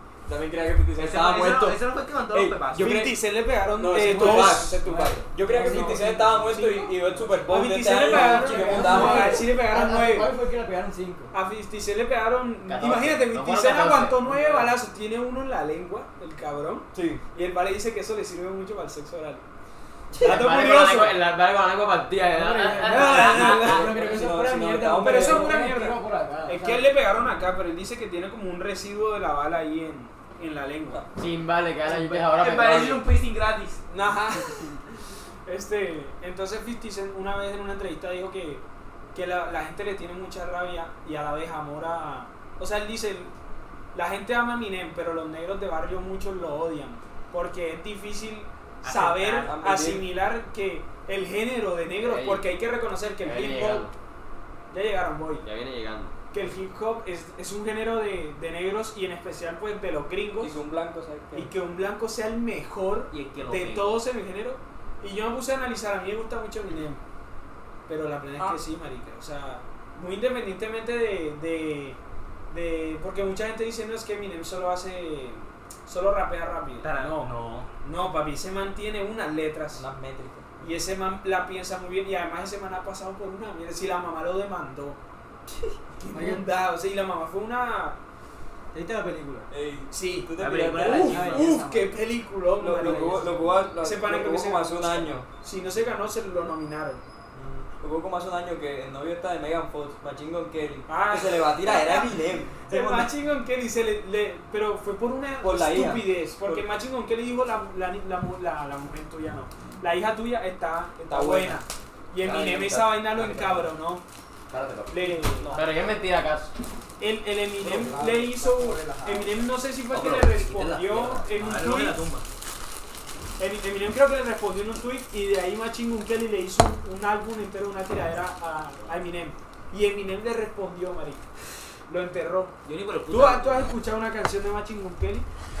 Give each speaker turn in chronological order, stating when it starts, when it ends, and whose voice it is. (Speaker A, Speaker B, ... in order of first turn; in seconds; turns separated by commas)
Speaker A: 0.3-3.2, Speaker B: 0.9-3.0, Speaker C: 2.7-6.9, Speaker A: 3.8-9.4, Speaker D: 3.9-6.8, Speaker C: 7.5-10.3, Speaker D: 8.0-11.3, Speaker C: 11.3-19.4, Speaker E: 12.7-14.2, Speaker D: 14.3-14.7, Speaker A: 16.9-17.2, Speaker E: 20.1-23.8, Speaker C: 20.2-21.2, Speaker D: 22.3-27.0, Speaker B: 23.0-23.5, Speaker A: 23.1-25.7, Speaker C: 24.9-31.1, Speaker E: 31.1-33.0, Speaker B: 32.1-33.8, Speaker C: 33.9-34.8, Speaker C: 35.5-43.3, Speaker C: 43.9-53.9, Speaker B: 48.8-49.6, Speaker A: 49.4-50.1, Speaker E: 52.0-52.5, Speaker E: 53.2-53.9, Speaker C: 54.7-55.4, Speaker E: 55.4-56.1, Speaker C: 56.3-60.6, Speaker A: 60.4-61.5, Speaker C: 61.3-67.0, Speaker B: 63.1-64.0, Speaker C: 67.9-72.0, Speaker C: 72.5-79.8, Speaker B: 76.8-77.7, Speaker A: 79.7-80.5, Speaker C: 80.6-85.0, Speaker C: 86.0-88.0, Speaker D: 86.1-86.5, Speaker D: 88.7-89.5, Speaker A: 89.5-91.4, Speaker C: 89.9-97.0, Speaker B: 90.4-91.5, Speaker D: 91.0-92.0, Speaker A: 92.6-95.3, Speaker D: 92.8-93.7, Speaker D: 97.3-97.6, Speaker A: 97.8-103.1, Speaker C: 100.9-114.0, Speaker A: 105.4-106.7, Speaker A: 111.1-111.6, Speaker F: 112.3-113.6, Speaker F: 114.5-115.2, Speaker C: 114.9-115.7, Speaker E: 115.5-116.5, Speaker C: 117.0-122.0, Speaker F: 119.9-121.2, Speaker B: 121.3-122.2, Speaker C: 123.4-131.2, Speaker C: 131.9-132.6, Speaker B: 132.7-133.7, Speaker C: 133.1-135.2